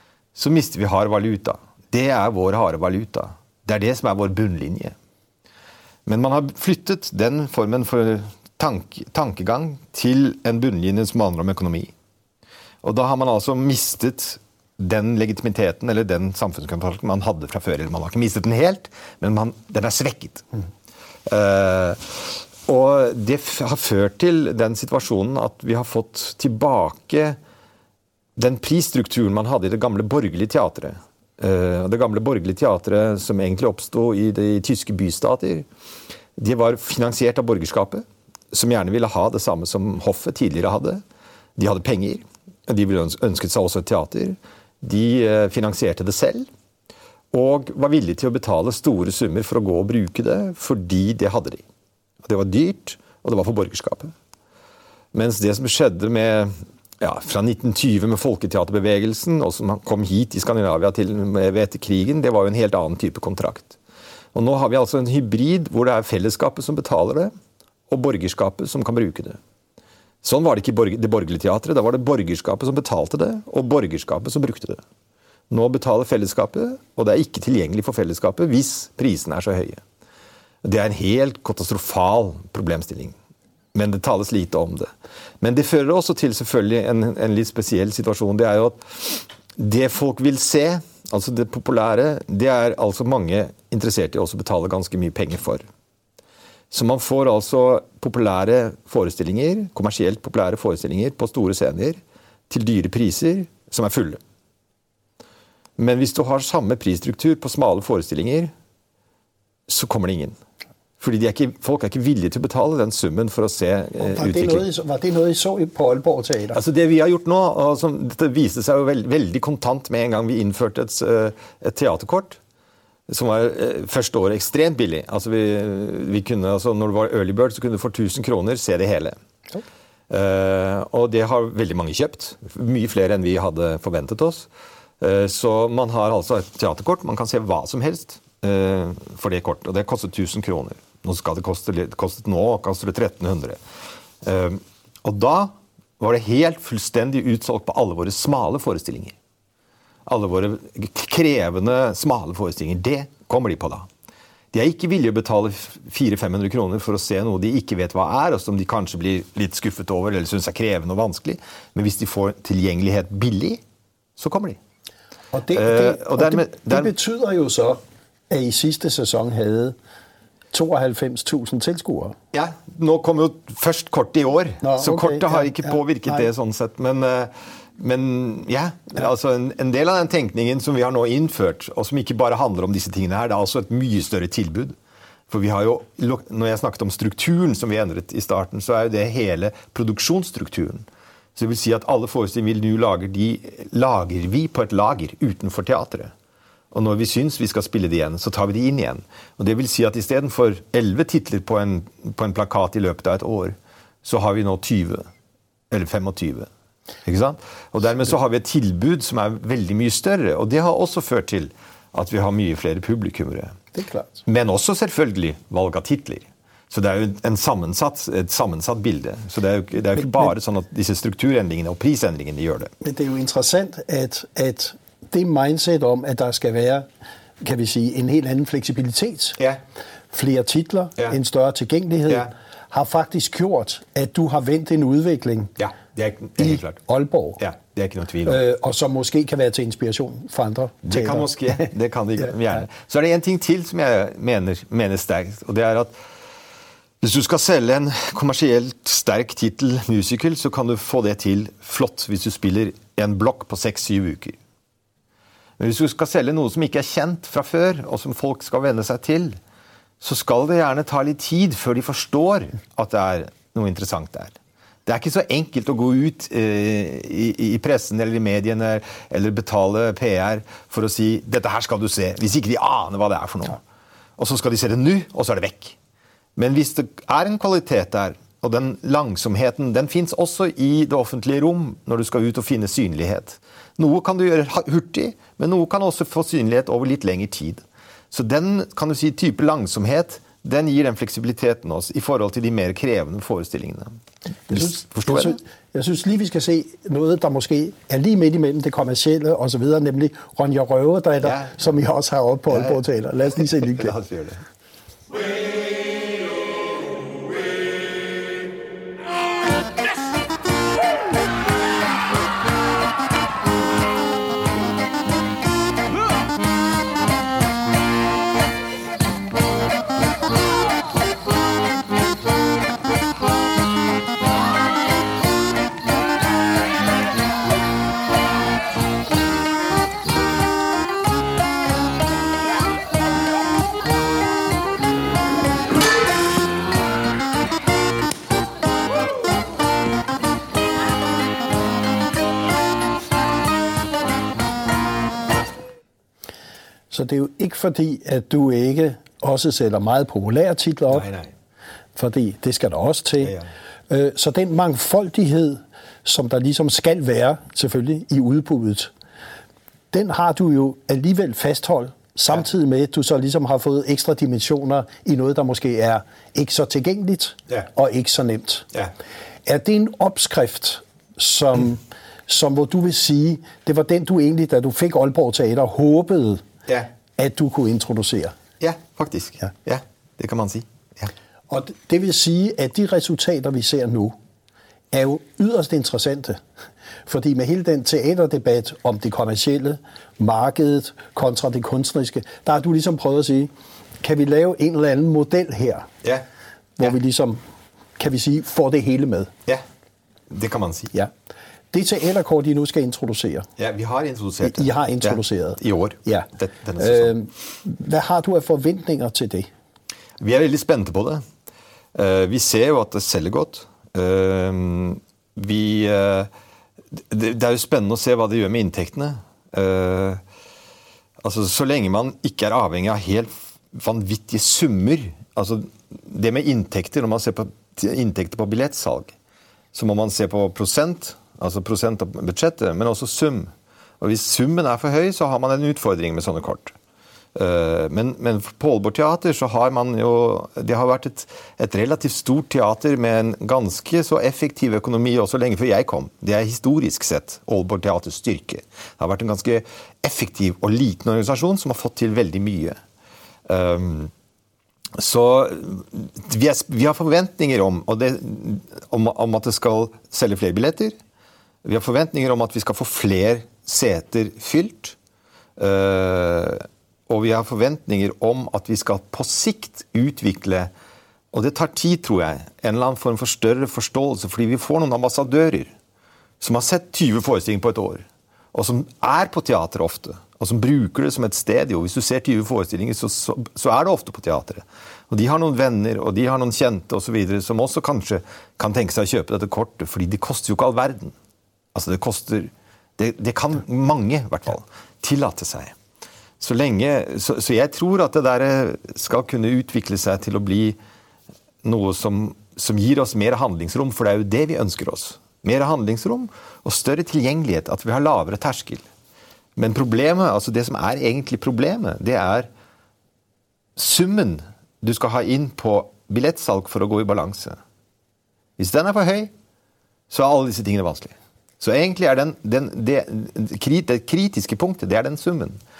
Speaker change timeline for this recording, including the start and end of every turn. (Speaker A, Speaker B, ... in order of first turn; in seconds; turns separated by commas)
Speaker A: 0.3-5.0, Speaker A: 6.1-11.9, Speaker A: 12.8-20.5, Speaker A: 21.3-27.4, Speaker A: 28.4-35.7, Speaker A: 36.4-41.0, Speaker A: 41.6-46.5, Speaker A: 47.3-51.6, Speaker A: 52.2-54.1, Speaker A: 55.1-63.8, Speaker A: 64.3-67.3, Speaker A: 67.9-69.4, Speaker A: 70.2-74.8, Speaker A: 75.5-79.8, Speaker A: 80.6-83.2, Speaker A: 83.7-95.7, Speaker A: 96.7-104.2, Speaker A: 105.8-108.5, Speaker A: 109.7-110.4, Speaker A: 111.0-114.7, Speaker B: 114.0-116.6, Speaker A: 116.5-122.4, Speaker A: 123.1-129.2, Speaker A: 130.1-134.5, Speaker A: 135.0-143.6, Speaker A: 144.2-149.2, Speaker A: 150.1-153.9, Speaker A: 154.5-163.6, Speaker A: 164.2-164.6, Speaker B: 165.3-167.8, Speaker A: 165.5-166.9, Speaker B: 168.3-169.8, Speaker B: 170.5-172.2, Speaker A: 172.3-184.8, Speaker B: 174.6-176.3, Speaker A: 185.3-196.1, Speaker A: 196.7-205.1, Speaker A: 205.7-206.5, Speaker A: 207.1-213.6, Speaker B: 213.7-214.2, Speaker A: 214.3-222.7, Speaker B: 222.8-226.9, Speaker B: 227.4-229.4, Speaker B: 230.1-235.5, Speaker A: 235.6-236.8, Speaker B: 236.4-237.4, Speaker A: 237.4-238.4, Speaker B: 238.3-241.7, Speaker A: 240.8-246.0, Speaker A: 247.0-254.4, Speaker A: 255.6-259.4, Speaker A: 260.0-273.6, Speaker A: 274.2-275.8, Speaker A: 276.4-295.4, Speaker B: 294.5-303.9, Speaker A: 301.2-301.7, Speaker A: 302.5-302.8, Speaker A: 303.4-304.4, Speaker B: 346.9-351.1, Speaker A: 350.9-351.3, Speaker B: 352.0-353.4, Speaker A: 353.2-353.5, Speaker B: 353.9-358.9, Speaker B: 359.9-368.7, Speaker B: 369.5-376.4, Speaker B: 377.2-378.4, Speaker A: 378.6-381.1, Speaker B: 381.5-384.1, Speaker B: 384.9-386.4, Speaker B: 387.1-395.9, Speaker B: 396.8-397.4, Speaker B: 398.0-399.3, Speaker A: 400.3-400.9, Speaker B: 401.7-403.5, Speaker A: 403.6-407.1, Speaker B: 404.4-409.5, Speaker A: 410.2-411.2, Speaker A: 411.9-416.3, Speaker A: 416.9-420.2, Speaker A: 421.2-429.1, Speaker A: 429.7-436.8, Speaker A: 437.4-452.8, Speaker A: 453.5-454.1, Speaker A: 454.9-461.0, Speaker A: 461.6-465.0, Speaker A: 465.6-470.7, Speaker A: 471.3-475.7, Speaker A: 476.4-491.1, Speaker A: 491.7-495.8, Speaker A: 496.4-500.8, Speaker A: 501.6-508.9, Speaker A: 509.6-512.5, Speaker A: 513.8-517.6, Speaker A: 518.6-519.3, Speaker A: 520.1-525.6